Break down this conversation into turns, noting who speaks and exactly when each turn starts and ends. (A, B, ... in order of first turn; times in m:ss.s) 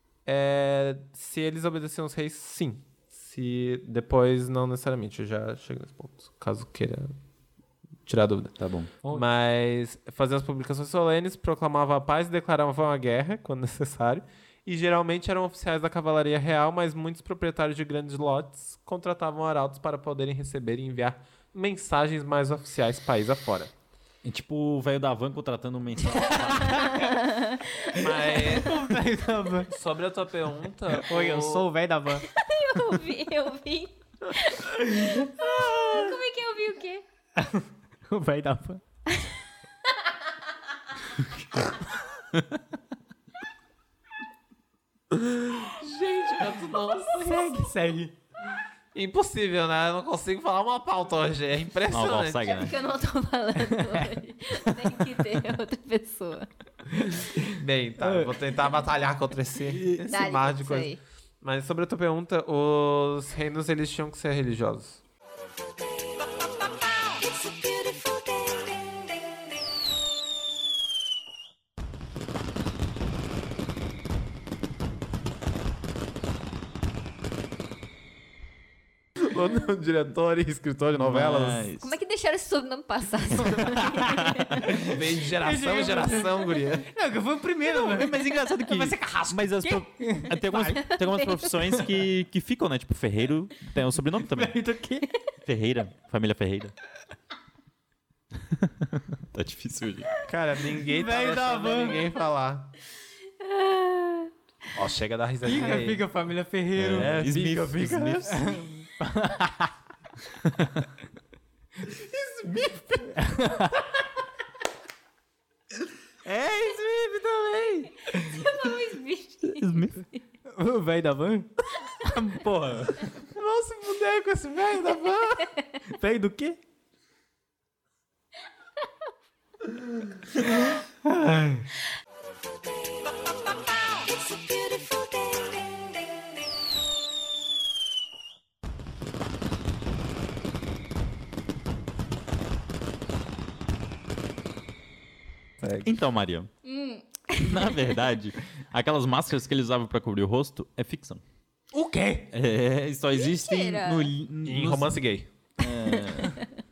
0:00.3-0:07.1 A
0:08.1-0:08.6 A
0:08.6-0:08.9 B
0:09.1-0:23.7 A
0:24.2-0:27.0 B
0:26.2-0:27.7 C
0:26.3-0:27.0 D
0:27.9-0:29.7 D
0:28.0-0:28.8 A
0:29.7-0:31.7 A
0:31.1-0:32.3 D
0:32.3-0:37.0 C
0:34.9-0:35.2 D
0:37.4-0:38.8 D
0:45.1-0:47.6 A
0:47.1-0:48.1 D
0:48.9-0:52.5 A
0:51.9-0:52.7 B
0:52.4-0:56.5 C
0:57.0-0:57.4 D
0:57.5-1:00.9 A
0:58.0-0:58.4 D
0:59.7-1:00.0 B
1:00.1-1:01.0 C
1:01.4-1:05.0 A
1:19.2-1:21.7 A
1:21.0-1:22.0 B
1:21.8-1:24.7 C
1:24.0-1:24.5 B
1:24.6-1:30.4 D
1:24.8-1:26.9 A
1:27.7-1:34.6 B
1:30.5-1:31.5 C
1:34.2-1:35.1 D
1:35.4-1:36.7 B
1:38.5-1:40.1 B
1:40.3-1:42.7 A
1:40.8-1:42.1 D
1:43.4-1:44.3 C
1:44.7-1:46.0 A
1:45.4-1:47.2 D
1:46.8-1:48.5 B
1:46.9-1:48.3 A
1:48.2-1:49.7 D
1:50.4-1:50.8 B
1:51.8-1:53.3 A
1:53.2-1:53.9 D
1:56.2-1:57.9 B
1:58.1-2:00.0 C
1:58.1-1:58.4 D
1:59.4-2:00.0 B
2:00.5-2:01.5 D
2:02.1-2:03.1 B
2:03.3-2:05.5 A
2:05.4-2:05.8 C
2:05.9-2:06.6 D
2:11.0-2:11.6 D
2:25.6-2:25.9 A
2:25.8-2:26.5 B
2:26.6-2:28.0 C
2:27.4-2:31.2 B
2:31.7-2:32.3 D
2:32.3-2:34.9 B
2:33.2-2:34.1 C
2:34.4-2:35.3 A
2:35.6-2:36.4 B